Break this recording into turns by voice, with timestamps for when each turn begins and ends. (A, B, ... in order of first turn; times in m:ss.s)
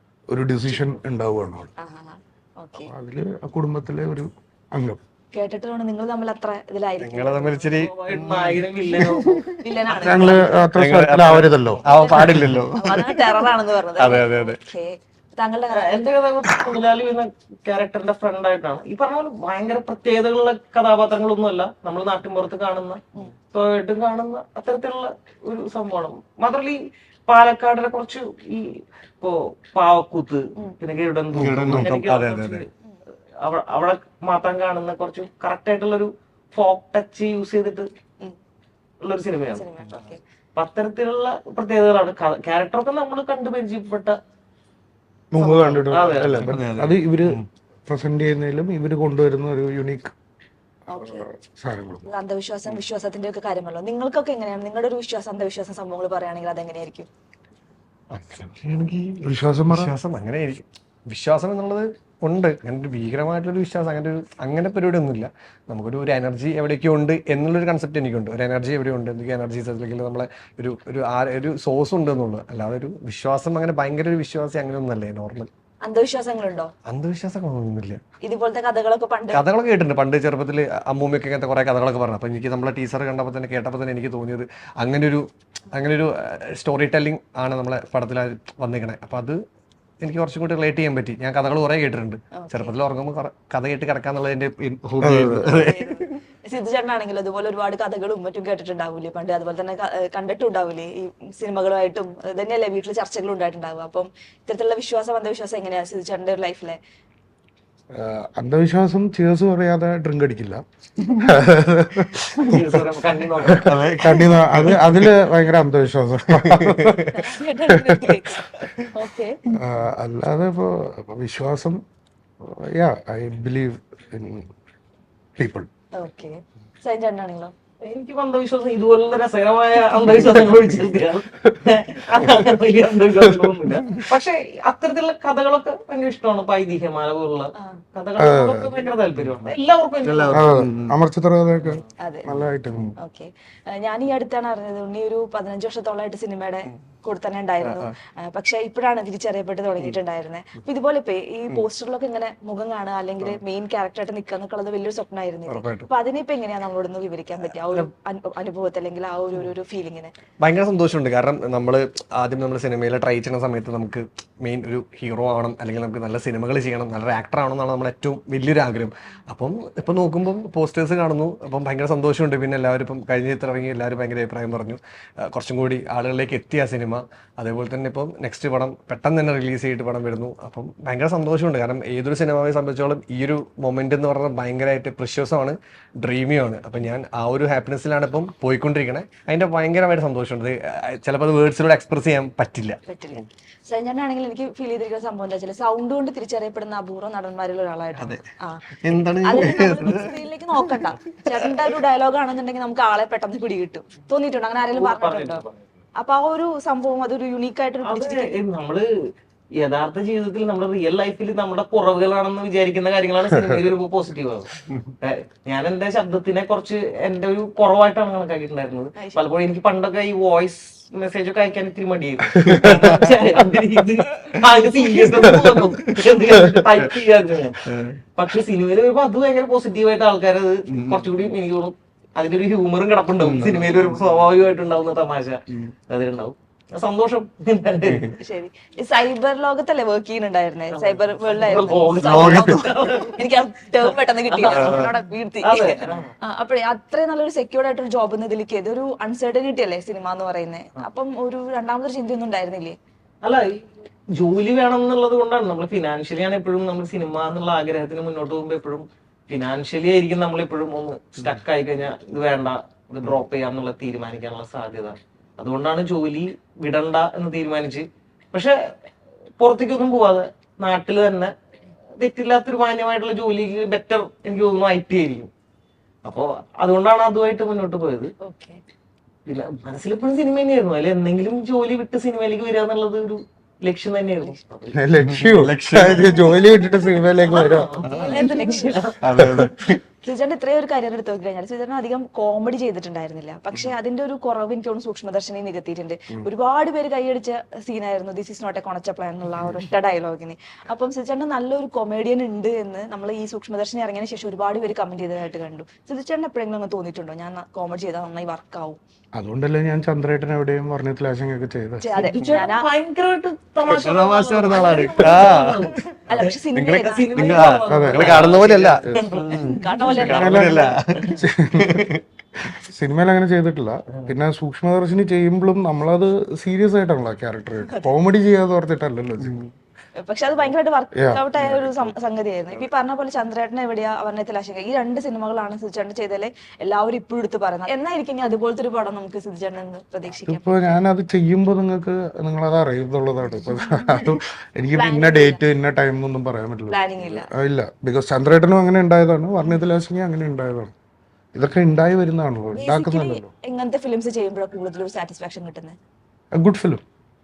0:00.3-0:01.7 A
0:01.8-0:02.9 B
0:02.8-0:05.0 A
0:05.3-0:07.7 B
0:07.0-0:09.6 C
0:07.7-0:09.4 D
0:09.5-0:10.5 B
0:10.0-0:11.9 A
0:10.7-0:14.6 C
0:11.8-0:16.1 B
0:15.7-0:32.7 D
0:31.3-0:32.6 C
0:33.4-0:37.9 D
0:39.0-0:39.7 D
0:39.5-0:40.2 B
0:40.6-0:44.2 D
0:45.3-0:50.1 A
0:45.4-0:46.5 D
0:46.4-0:47.4 C
0:50.9-0:51.2 B
0:51.0-0:52.1 A
0:52.0-0:57.1 B
0:58.1-1:15.5 C
0:59.2-0:59.9 A
1:15.8-1:16.7 B
1:16.9-1:18.0 C
1:18.2-1:19.4 B
1:19.3-1:29.4 C
1:30.0-1:36.2 C
1:32.3-1:32.7 B
1:35.0-1:35.5 A
1:35.5-1:46.8 B
1:47.9-1:52.6 A
1:52.5-1:53.9 D
1:53.5-1:55.3 C
1:54.0-1:57.1 A
1:56.4-1:57.3 C
1:57.1-1:59.4 B
1:58.4-1:58.9 C
1:59.5-2:01.8 A
2:02.4-2:04.5 A
2:05.4-2:05.7 A
2:05.9-2:07.5 B
2:07.8-2:20.5 D
2:17.6-2:17.8 B
2:18.2-2:18.7 A
2:20.0-2:21.0 C
2:20.3-2:22.9 A
2:22.0-2:22.3 B
2:23.0-2:40.1 B
2:27.6-2:27.9 C
2:35.5-2:35.9 C
2:37.4-2:37.9 C
2:40.4-3:13.2 C
3:12.9-3:18.6 B
3:18.8-3:21.3 C
3:19.2-3:25.4 B
3:24.7-3:25.6 D
3:26.0-3:28.3 B
3:27.8-3:28.8 D
3:29.6-3:58.1 D
3:39.0-3:39.2 B
3:42.3-3:43.2 C
3:42.3-3:42.7 A
3:45.2-3:46.8 C
3:47.6-3:48.0 C
3:50.7-3:51.1 C
3:53.2-3:53.9 C
3:57.9-3:58.1 C
3:58.1-4:12.8 B
4:00.7-4:03.2 D
4:02.0-4:02.9 C
4:04.3-4:06.1 D
4:04.5-4:04.9 C
4:13.2-4:13.6 D
4:14.2-4:28.6 D
4:29.4-4:31.3 D
4:32.0-4:35.3 D
4:36.0-4:38.1 D
4:38.2-4:38.6 B
4:39.2-4:44.8 D
4:44.7-4:47.9 A
4:45.0-4:46.3 C
4:47.2-4:48.4 D
4:47.8-4:49.8 C
4:47.9-4:48.9 B
4:49.0-4:49.5 A
4:50.0-5:08.8 B
5:09.1-5:11.9 A
5:11.8-5:12.7 B
5:11.9-5:16.3 D
5:13.7-5:15.8 C
5:14.7-5:15.4 B
5:16.1-5:17.4 B
5:16.5-5:22.0 C
5:16.9-5:21.1 D
5:17.7-5:18.2 A
5:19.4-5:20.7 B
5:20.0-5:21.8 A
5:22.4-5:29.4 A
5:29.2-5:29.5 C
5:30.0-5:40.4 B
5:30.9-5:31.2 A
5:31.4-5:31.9 C
5:40.2-5:50.7 A
5:43.5-5:44.2 B
5:44.7-5:45.4 B
5:46.7-5:47.3 B
5:51.3-5:53.3 A
5:52.5-5:55.8 B
5:56.3-5:56.8 A